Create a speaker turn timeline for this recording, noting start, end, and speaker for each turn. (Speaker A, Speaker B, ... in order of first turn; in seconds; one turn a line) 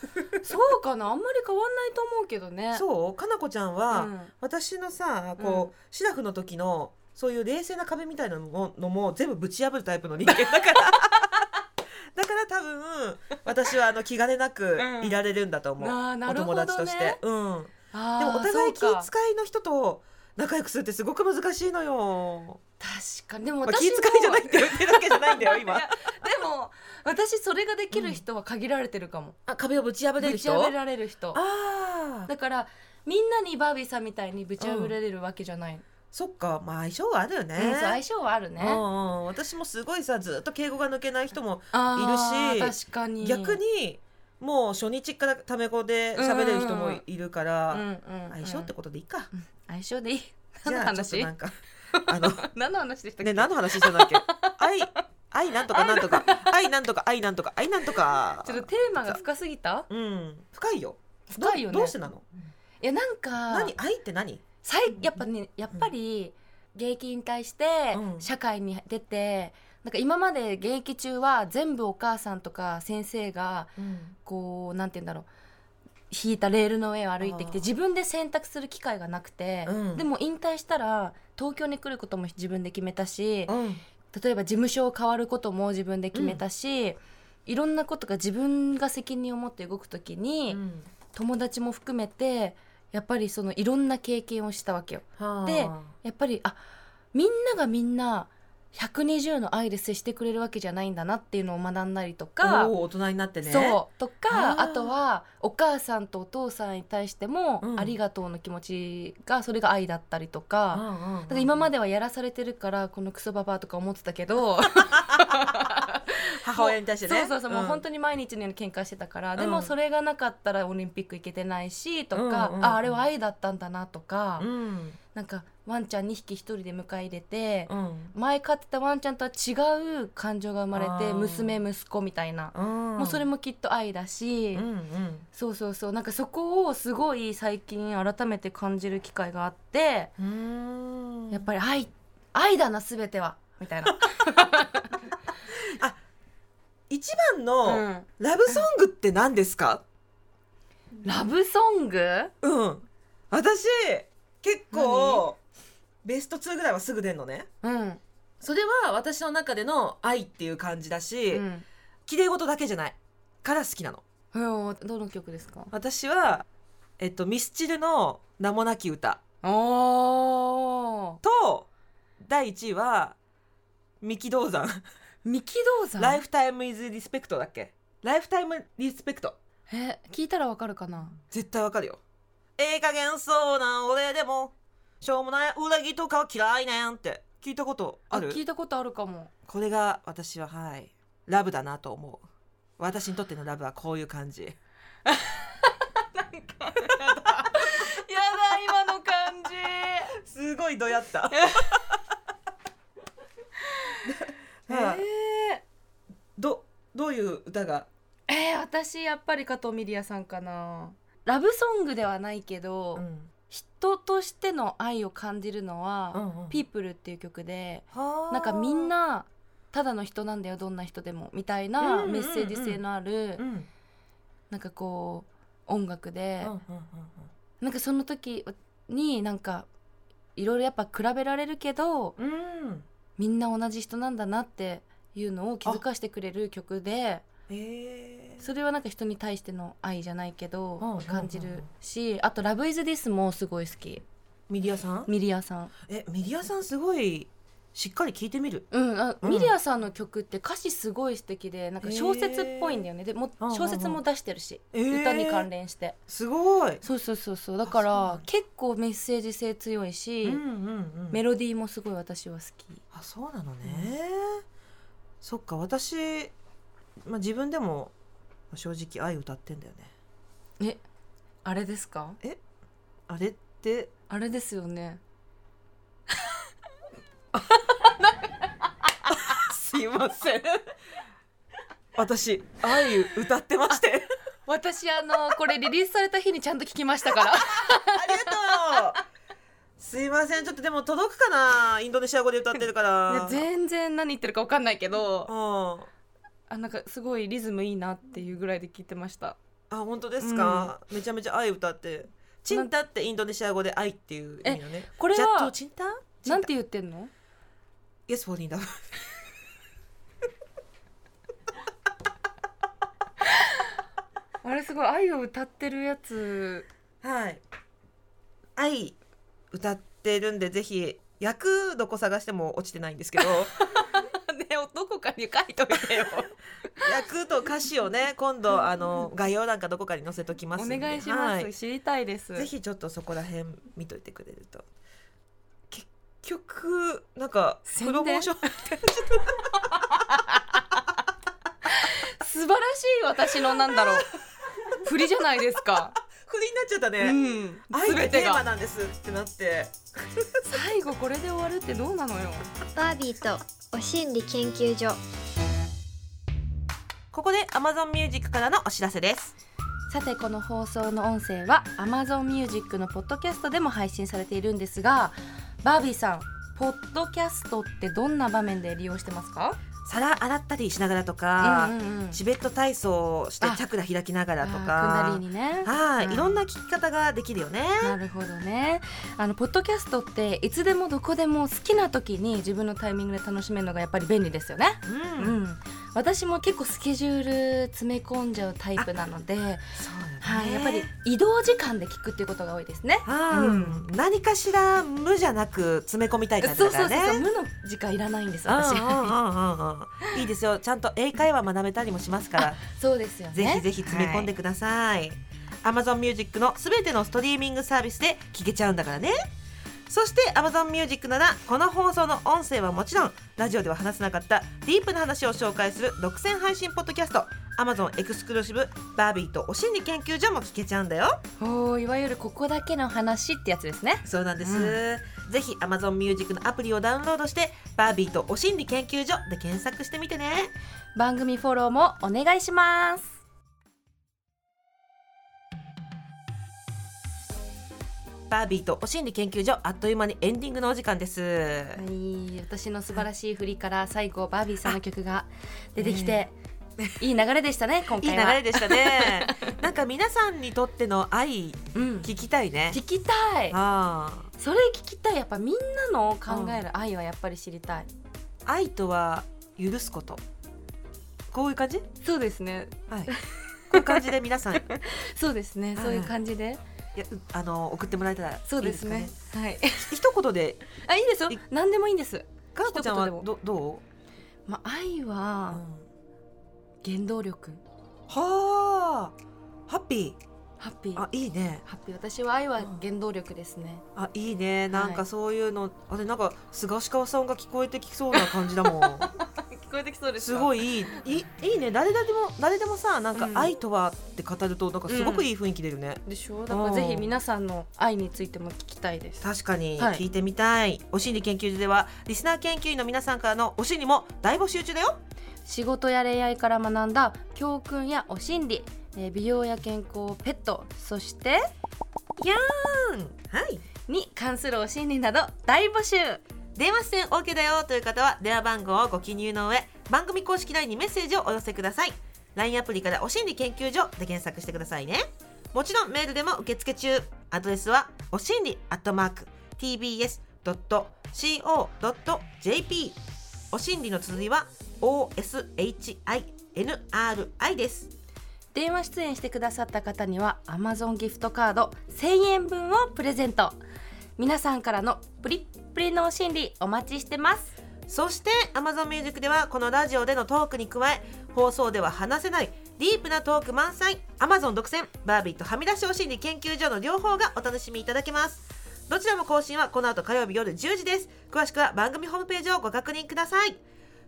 Speaker A: 0.4-2.8
Speaker B: 2.7-11.4
Speaker A: 3.9-4.3
Speaker A: 5.4-5.7
Speaker B: 12.1-22.6
Speaker A: 14.8-15.2
Speaker A: 15.8-17.2
Speaker A: 17.9-19.1
Speaker A: 22.8-29.4
Speaker B: 23.6-25.9
Speaker B: 27.9-28.2
Speaker B: 29.5-30.7
Speaker A: 30.2-31.4
Speaker B: 31.3-32.3
Speaker A: 32.3-35.8
Speaker B: 34.6-34.9
Speaker B: 36.1-38.0
Speaker A: 37.6-38.8
Speaker B: 38.6-49.3
Speaker A: 41.7-43.6
Speaker A: 46.1-47.0
Speaker A: 47.7-48.7
Speaker A: 49.3-51.3
Speaker B: 50.6-52.5
Speaker A: 51.9-55.0
Speaker B: 53.2-59.2
Speaker A: 55.7-56.5
Speaker A: 58.4-59.9
Speaker B: 59.9-62.2
Speaker A: 61.3-61.9
Speaker A: 62.8-63.7
Speaker B: 63.5-64.4
Speaker A: 64.6-73.7
Speaker B: 67.9-68.3
Speaker B: 73.8-74.1
Speaker A: 74.2-75.3
Speaker A: 76.1-83.5
Speaker B: 77.2-77.6
Speaker B: 79.7-80.0
Speaker B: 83.5-83.8
Speaker A: 84.1-90.6
Speaker B: 86.1-86.4
Speaker B: 90.5-90.9
Speaker A: 91.1-96.6
Speaker B: 95.2-95.9
Speaker A: 97.1-102.7
Speaker B: 102.4-104.9
Speaker A: 103.4-124.5
Speaker B: 107.6-107.9
Speaker B: 110.7-111.7
Speaker B: 115.0-115.6
Speaker B: 116.4-117.8
Speaker B: 119.4-119.7
Speaker B: 122.1-123.0
Speaker B: 124.4-125.0
Speaker A: 125.1-134.6
Speaker B: 127.7-128.1
Speaker B: 130.7-131.6
Speaker B: 132.5-133.2
Speaker B: 134.5-135.2
Speaker A: 135.3-140.1
Speaker B: 140.2-141.4
Speaker A: 141.3-144.9
Speaker B: 145.5-146.0
Speaker B: 146.9-149.8
Speaker A: 147.6-148.6
Speaker A: 151.0-152.3
Speaker B: 152.4-155.4
Speaker A: 154.7-155.2
Speaker B: 156.0-157.5
Speaker A: 157.6-158.0
Speaker B: 158.4-161.4
Speaker A: 161.3-161.7
Speaker B: 162.1-164.0
Speaker A: 164.3-165.7
Speaker B: 165.7-166.4
Speaker B: 167.0-169.2
Speaker A: 169.4-171.2
Speaker B: 171.2-171.7
Speaker B: 172.2-173.2
Speaker B: 174.0-174.8
Speaker A: 175.2-176.2
Speaker B: 176.0-179.4
Speaker A: 179.7-181.2
Speaker B: 181.3-182.0
Speaker B: 182.6-188.4
Speaker A: 188.1-189.3
Speaker B: 189.4-192.2
Speaker B: 192.8-194.6
Speaker A: 195.1-200.1
Speaker B: 197.4-197.8
Speaker B: 200.2-202.0
Speaker A: 201.3-201.7
Speaker A: 203.7-204.0
Speaker B: 204.0-205.0
Speaker A: 204.7-205.6
Speaker B: 206.3-207.9
Speaker A: 208.3-223.4
Speaker B: 212.9-213.3
Speaker B: 216.1-216.6
Speaker B: 217.9-218.9
Speaker B: 221.8-222.8
Speaker B: 223.4-223.7
Speaker A: 224.5-226.5
Speaker B: 226.4-227.3
Speaker A: 227.6-229.7
Speaker A: 230.3-232.2
Speaker B: 232.2-232.8
Speaker A: 233.2-237.2
Speaker B: 237.5-238.4
Speaker A: 238.4-244.0
Speaker B: 240.8-241.7
Speaker B: 244.5-245.1
Speaker A: 245.1-245.7
Speaker B: 245.8-248.7
Speaker A: 248.7-256.0
Speaker B: 249.2-249.5
Speaker B: 251.8-252.8
Speaker B: 253.4-254.0
Speaker B: 254.7-255.5
Speaker B: 256.1-256.8
Speaker A: 256.8-260.4
Speaker B: 257.7-258.2
Speaker B: 260.2-261.2
Speaker A: 261.1-262.8
Speaker B: 262.9-264.4
Speaker A: 263.6-263.9
Speaker B: 265.2-266.3
Speaker B: 267.0-267.9
Speaker B: 268.5-269.9
Speaker A: 271.4-272.2
Speaker B: 273.1-273.9
Speaker A: 274.1-275.0
Speaker A: 277.4-280.6
Speaker B: 279.1-280.3
Speaker B: 281.9-284.1
Speaker A: 284.5-289.0
Speaker B: 287.1-289.0
Speaker B: 289.8-293.5
Speaker A: 293.1-295.3
Speaker B: 295.3-295.9
Speaker A: 296.5-299.4
Speaker B: 299.7-306.5
Speaker A: 300.2-300.7
Speaker A: 304.4-305.5
Speaker A: 306.2-307.1
Speaker B: 308.1-308.8
Speaker A: 314.4-316.7
Speaker B: 317.0-317.4
Speaker B: 318.6-319.0
Speaker B: 319.5-323.9
Speaker A: 323.7-326.9
Speaker B: 326.8-331.5
Speaker A: 330.6-332.5
Speaker B: 332.3-334.7
Speaker B: 335.7-339.7
Speaker A: 337.7-340.8
Speaker A: 341.7-344.1
Speaker B: 343.7-344.0
Speaker A: 344.7-346.0
Speaker B: 346.1-347.2
Speaker A: 347.0-348.4
Speaker B: 347.7-350.6
Speaker A: 350.4-352.5
Speaker C: 352.8-355.0
Speaker B: 357.1-359.3
Speaker A: 359.9-369.6
Speaker B: 369.8-377.9
Speaker A: 371.4-372.2
Speaker A: 374.4-376.4
Speaker A: 377.8-393.8
Speaker B: 384.9-385.4
Speaker B: 389.8-390.9
Speaker B: 393.0-397.2
Speaker A: 396.4-399.1
Speaker B: 398.5-402.6
Speaker A: 402.4-404.3
Speaker B: 403.3-409.1
Speaker B: 409.9-421.2
Speaker A: 421.4-424.8
Speaker B: 424.1-430.5
Speaker A: 430.9-433.1
Speaker B: 438.3-441.8
Speaker A: 441.8-446.3
Speaker B: 445.8-446.2
Speaker A: 447.0-449.5
Speaker B: 447.9-452.8
Speaker A: 451.7-452.1
Speaker A: 452.7-453.6
Speaker B: 453.5-454.3
Speaker A: 454.4-457.9
Speaker B: 456.3-456.6
Speaker B: 458.4-460.2
Speaker B: 461.3-461.9
Speaker A: 462.0-464.1
Speaker B: 463.7-464.6
Speaker A: 464.7-466.6
Speaker B: 465.8-466.1
Speaker B: 466.9-469.1
Speaker A: 468.5-469.9
Speaker B: 469.8-470.6
Speaker A: 470.8-473.2
Speaker B: 472.5-473.8
Speaker A: 474.5-475.6
Speaker B: 475.5-475.9
Speaker A: 476.8-477.6
Speaker B: 478.1-479.1
Speaker B: 479.7-480.2
Speaker A: 480.6-481.1
Speaker B: 480.9-481.6
Speaker A: 481.6-483.8
Speaker B: 483.9-489.1
Speaker A: 484.7-485.0
Speaker A: 488.2-491.0
Speaker B: 490.2-497.1
Speaker A: 493.1-493.5
Speaker A: 494.9-495.3
Speaker A: 496.0-499.2
Speaker B: 499.2-505.0
Speaker A: 499.8-500.0
Speaker A: 505.4-511.4
Speaker B: 512.2-513.6
Speaker A: 513.9-516.2
Speaker B: 516.5-533.0
Speaker B: 533.5-537.9
Speaker A: 538.5-543.6
Speaker A: 544.2-547.5
Speaker B: 547.9-563.6